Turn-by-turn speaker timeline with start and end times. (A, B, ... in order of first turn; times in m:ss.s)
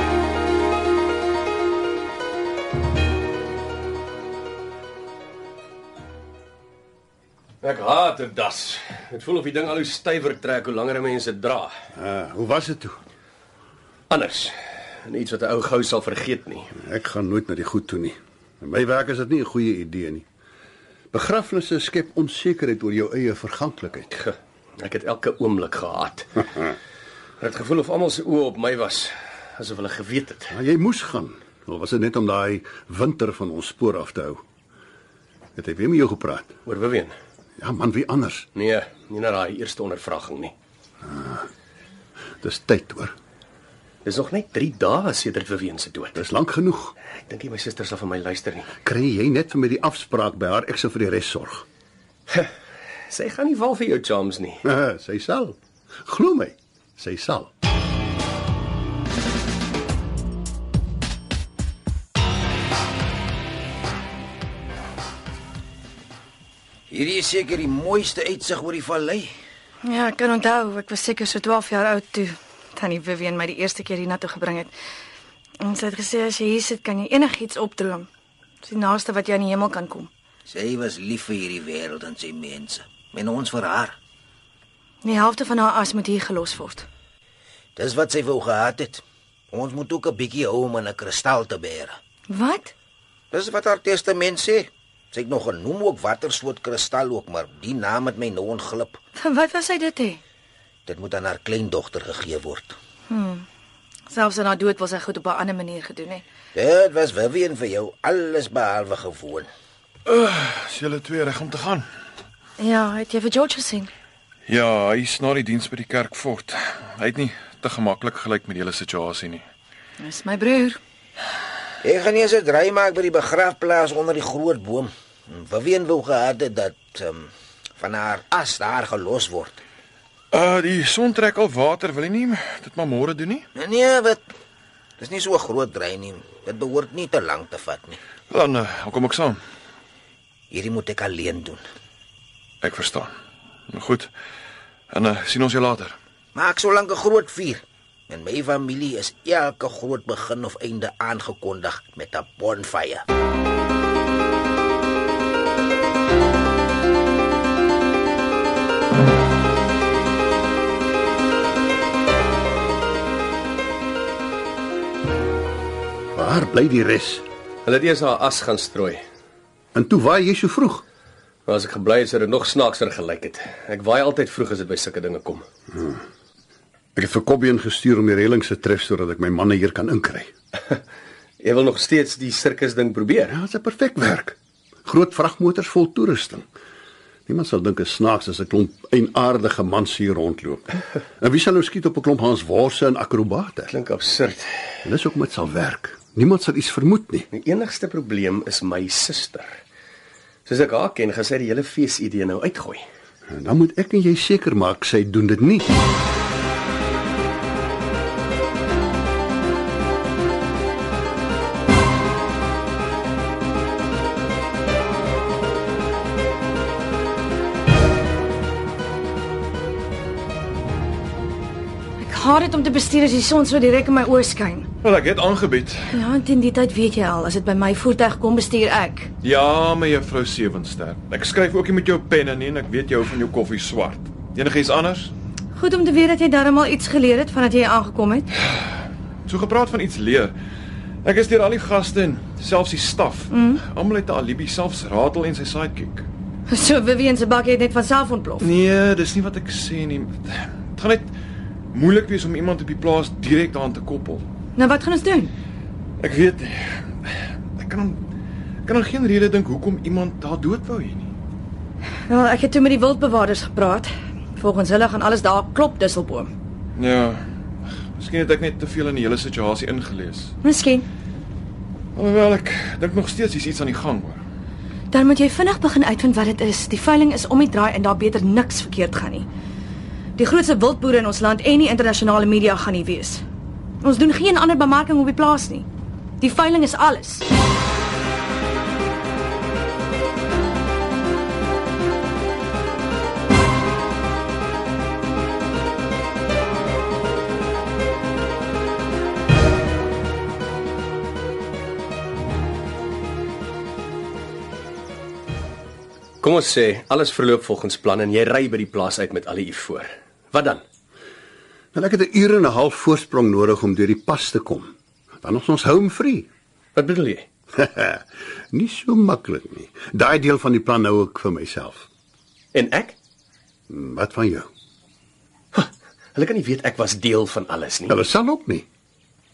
0:07.6-0:11.7 A
0:11.9-0:13.0 B
0:14.1-0:14.5 A
0:15.0-0:16.7 A
0:16.7-0:20.2 B
0:21.1-0:24.1 B
0:24.1-0:26.4 A
0:27.4-0:30.5 A
0:30.5-0:34.4 B
0:35.6-0:36.6 B
0:36.6-0:37.1 A
0:37.6-0:38.5 B
0:38.5-0:40.5 A
0:41.0-0:41.4 B
0:42.4-0:43.1 B
0:44.0-0:46.2 A
0:46.1-0:46.9 B
0:47.3-0:48.7 A
0:48.8-0:51.6 B
0:53.1-0:54.6 A
0:54.6-0:57.5 B
1:06.9-1:09.3 C
1:09.8-1:14.7 D
1:15.6-1:18.1 D
1:18.6-1:20.1 D
1:20.5-1:24.0 C
1:25.0-1:26.8 D
1:27.8-1:32.0 C
1:32.3-1:32.7 D
1:33.3-1:39.0 C
1:39.2-1:40.2 D
1:40.8-1:42.8 C
1:43.1-1:43.4 D
1:44.1-1:46.2 D
1:46.5-1:49.5 C
1:50.0-1:51.8 E
1:52.6-1:53.9 D
1:54.5-1:59.4 E
2:00.0-2:00.8 D
2:01.8-2:09.6 C
2:10.3-2:13.4 E
2:13.5-2:14.2 C
2:15.0-2:18.0 C
2:18.3-2:19.4 E
2:20.5-2:21.6 C
2:22.6-2:23.1 E
2:23.7-2:24.1 E
2:24.9-2:26.0 E
2:26.3-2:33.0 C
2:46.1-2:47.2 B
2:47.6-2:49.0 A
2:49.7-2:50.8 B
2:51.4-2:55.4 A
2:57.0-3:00.3 B
3:01.4-3:03.3 A
3:03.3-3:06.5 B
3:07.3-3:13.7 B
3:13.7-3:14.5 A
3:14.8-3:17.3 B
3:17.3-3:19.6 A
3:20.4-3:22.8 A
3:23.3-3:25.7 B
3:42.0-3:44.7 D
3:44.8-3:46.0 E
3:45.9-3:49.1 D
3:49.2-3:55.1 E
3:55.5-3:58.3 D
3:59.3-4:00.3 E
4:01.0-4:06.1 E
4:03.3-4:03.6 D
4:06.5-4:08.4 D
4:08.4-4:11.1 E
4:11.7-4:14.2 E
4:14.6-4:15.3 D
4:16.0-4:16.6 E
4:17.6-4:18.0 E
4:18.6-4:21.1 E
4:22.1-4:26.3 D
4:26.8-4:27.2 E
4:28.0-4:30.3 E
4:30.4-4:30.8 D
4:31.9-4:34.2 E
4:34.9-4:39.3 D
4:40.2-4:43.2 D
4:43.8-4:45.7 D
4:46.2-4:47.2 D
5:06.2-5:10.6 A
5:11.7-5:14.7 B
5:15.2-5:16.3 B
5:16.7-5:17.2 A
5:17.5-5:21.9 B
5:22.5-5:23.0 A
5:23.7-5:24.5 B
5:25.5-5:28.0 A
5:27.9-5:28.6 B